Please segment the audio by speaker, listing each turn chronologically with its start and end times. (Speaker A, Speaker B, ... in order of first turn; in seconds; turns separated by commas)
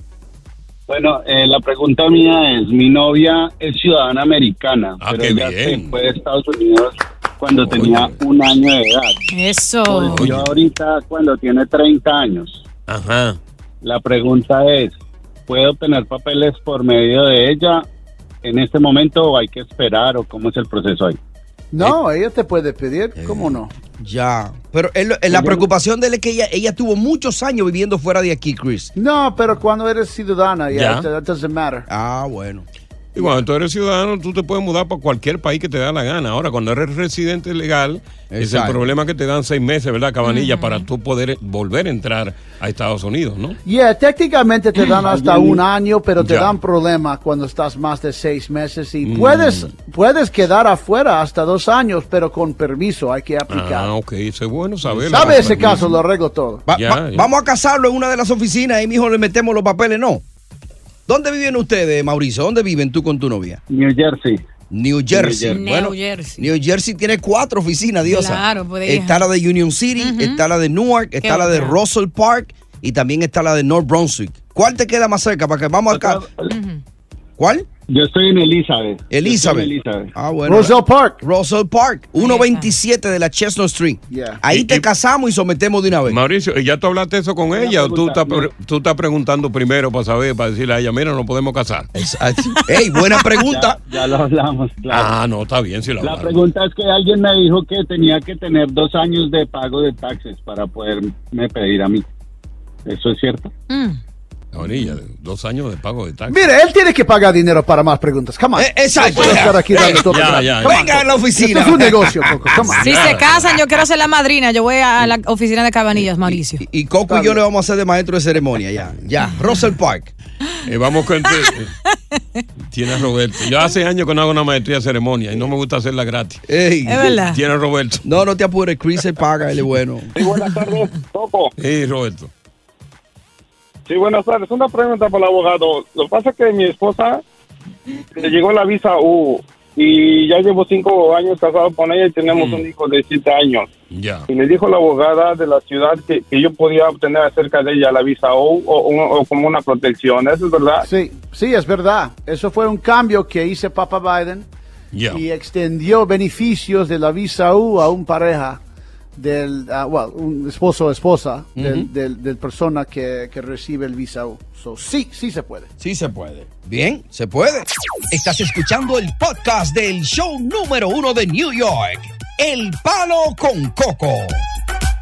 Speaker A: 0.9-9.2, Speaker B: 5.0-6.0, Speaker B: 7.6-8.2, Speaker C: 9.3-10.3, Speaker A: 9.8-12.6, Speaker B: 10.1-10.5, Speaker B: 12.9-13.4, Speaker A: 13.8-15.0, Speaker A: 15.5-17.9, Speaker A: 18.4-21.2, Speaker D: 21.7-23.7, Speaker B: 23.2-23.6, Speaker E: 24.0-28.9, Speaker A: 25.3-25.6, Speaker D: 28.9-31.9, Speaker B: 30.7-31.1, Speaker E: 31.9-32.7, Speaker B: 33.1-43.6, Speaker E: 38.3-38.9, Speaker C: 40.2-40.9, Speaker D: 43.6-53.9, Speaker A: 45.1-45.6, Speaker B: 46.2-46.5, Speaker B: 49.0-49.7, Speaker B: 53.5-55.9, Speaker D: 55.1-56.6, Speaker E: 55.1-55.8, Speaker E: 56.7-60.2, Speaker B: 56.7-57.3, Speaker E: 61.1-63.6, Speaker A: 63.7-64.4, Speaker E: 64.7-76.2, Speaker A: 65.1-65.6, Speaker C: 65.5-66.5, Speaker C: 68.0-69.2, Speaker C: 70.0-70.4, Speaker C: 71.2-71.8, Speaker A: 75.9-76.5, Speaker C: 76.5-76.8, Speaker E: 77.4-77.7, Speaker A: 77.9-80.1, Speaker E: 79.1-86.2, Speaker D: 80.5-81.2, Speaker C: 82.2-82.7, Speaker D: 84.1-84.4, Speaker B: 84.5-84.9, Speaker B: 86.1-91.9, Speaker A: 87.6-88.5, Speaker E: 92.0-93.8, Speaker A: 93.4-95.1, Speaker B: 94.9-96.4, Speaker A: 96.0-102.1, Speaker A: 102.9-103.5, Speaker C: 103.7-104.0, Speaker B: 104.5-106.4, Speaker D: 106.3-112.9, Speaker E: 108.6-112.6, Speaker B: 109.1-111.1, Speaker B: 112.8-113.5, Speaker C: 112.8-116.6, Speaker E: 116.3-120.1, Speaker D: 117.1-117.4, Speaker B: 120.7-121.7, Speaker C: 122.1-122.4, Speaker B: 122.7-126.4, Speaker E: 126.5-127.2, Speaker C: 126.9-127.4, Speaker B: 127.2-128.1, Speaker E: 128.0-130.1, Speaker F: 130.2-131.5, Speaker B: 131.6-132.3, Speaker F: 133.9-137.2, Speaker F: 138.2-143.7, Speaker B: 142.3-142.7, Speaker B: 143.9-144.3, Speaker F: 144.3-150.9, Speaker D: 150.8-154.5, Speaker B: 154.9-155.2, Speaker D: 155.1-158.6, Speaker D: 159.2-165.7, Speaker E: 161.6-161.9, Speaker E: 165.8-174.5